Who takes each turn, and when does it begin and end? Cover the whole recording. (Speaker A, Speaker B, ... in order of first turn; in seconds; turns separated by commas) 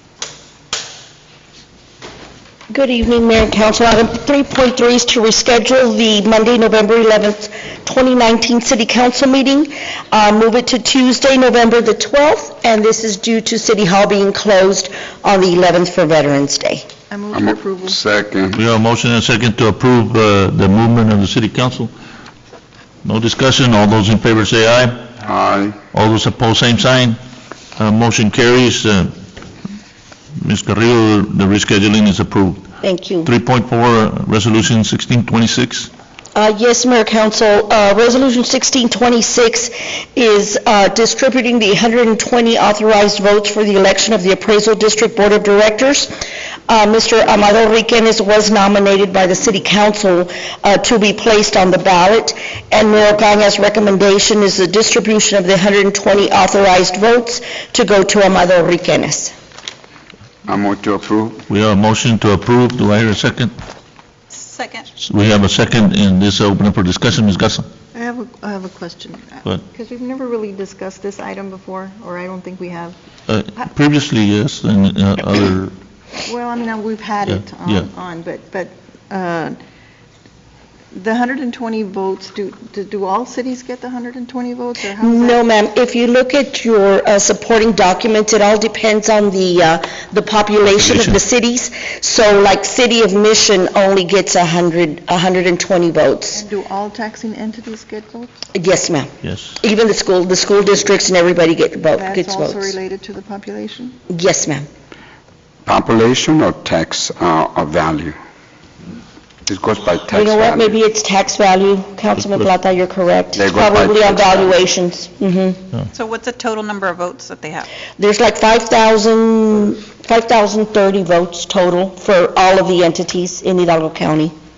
Speaker A: 2.7-16.9, Speaker B: 17.1-18.0, Speaker C: 17.3-18.6, Speaker D: 18.6-21.9, Speaker D: 23.0-25.1, Speaker C: 25.2-25.8, Speaker D: 25.9-27.2, Speaker D: 27.8-29.1, Speaker D: 30.4-32.6, Speaker A: 32.8-33.3, Speaker D: 33.2-35.9, Speaker A: 36.3-46.1, Speaker A: 46.7-59.3, Speaker C: 60.5-61.4, Speaker D: 61.5-63.5, Speaker E: 64.3-64.9, Speaker D: 65.0-67.7, Speaker B: 67.9-73.0, Speaker D: 73.3-75.7, Speaker B: 76.2-79.6, Speaker D: 77.3-77.9, Speaker B: 80.9-85.4, Speaker A: 84.9-96.4, Speaker D: 90.7-91.2, Speaker B: 96.3-98.4, Speaker A: 98.5-102.8, Speaker D: 99.2-99.6, Speaker B: 101.9-104.0, Speaker A: 104.1-104.7, Speaker C: 105.6-108.1, Speaker C: 109.5-110.8, Speaker A: 110.1-115.6, Speaker D: 112.2-112.4, Speaker C: 113.4-114.6, Speaker E: 115.9-117.7, Speaker A: 118.0-124.3